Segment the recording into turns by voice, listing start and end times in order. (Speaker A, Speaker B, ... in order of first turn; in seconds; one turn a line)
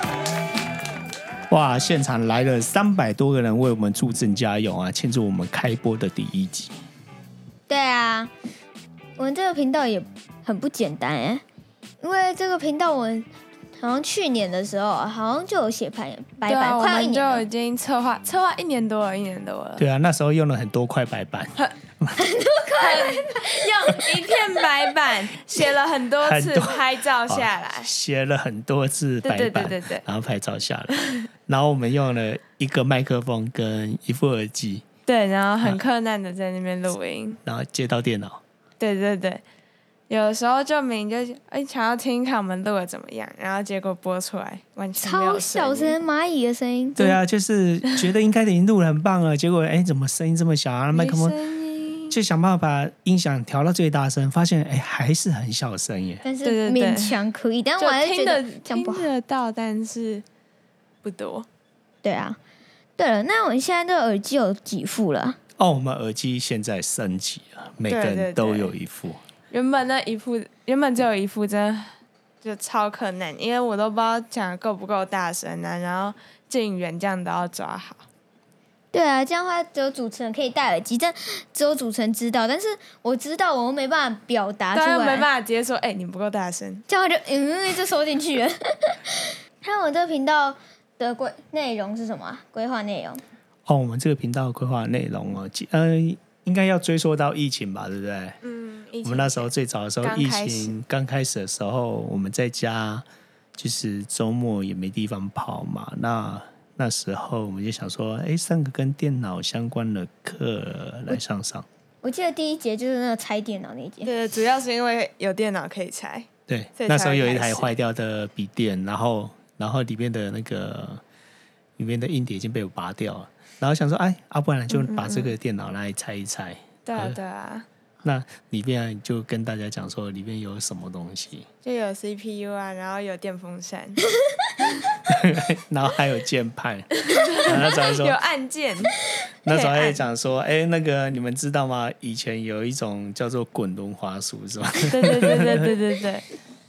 Speaker A: 1.5-6.7
Speaker B: 7.7-8.3
Speaker B: 9.2-11.4
Speaker B: 12.0-13.3
Speaker B: 13.8-17.4
Speaker C: 16.4-19.8
Speaker A: 19.8-22.2
Speaker B: 22.2-23.4
Speaker C: 22.8-27.9
Speaker A: 26.2-30.9
Speaker C: 29.2-30.0
Speaker A: 31.5-34.8
Speaker C: 35.1-37.4
Speaker A: 37.5-38.4
Speaker C: 38.8-39.4
Speaker C: 40.1-46.0
Speaker B: 45.0-47.2
Speaker A: 47.0-51.4
Speaker C: 50.9-52.2
Speaker A: 52.1-56.2
Speaker B: 56.2-59.1
Speaker C: 56.4-57.2
Speaker C: 57.8-60.2
Speaker C: 61.0-61.5
Speaker B: 62.0-62.4
Speaker B: 63.0-65.4
Speaker A: 65.6-69.2
Speaker C: 67.9-68.7
Speaker C: 69.5-71.9
Speaker C: 72.4-78.0
Speaker B: 78.9-85.2
Speaker C: 84.7-86.8
Speaker B: 86.9-93.2
Speaker A: 93.7-98.4
Speaker C: 98.4-100.8
Speaker A: 99.0-111.7
Speaker B: 112.0-114.1
Speaker C: 114.0-117.7
Speaker A: 116.5-121.0
Speaker A: 121.8-127.2
Speaker C: 124.7-125.3
Speaker C: 126.8-127.7
Speaker A: 128.0-131.5
Speaker C: 131.6-134.0
Speaker A: 135.1-138.2
Speaker C: 137.1-140.0
Speaker A: 139.4-145.7
Speaker C: 144.9-146.2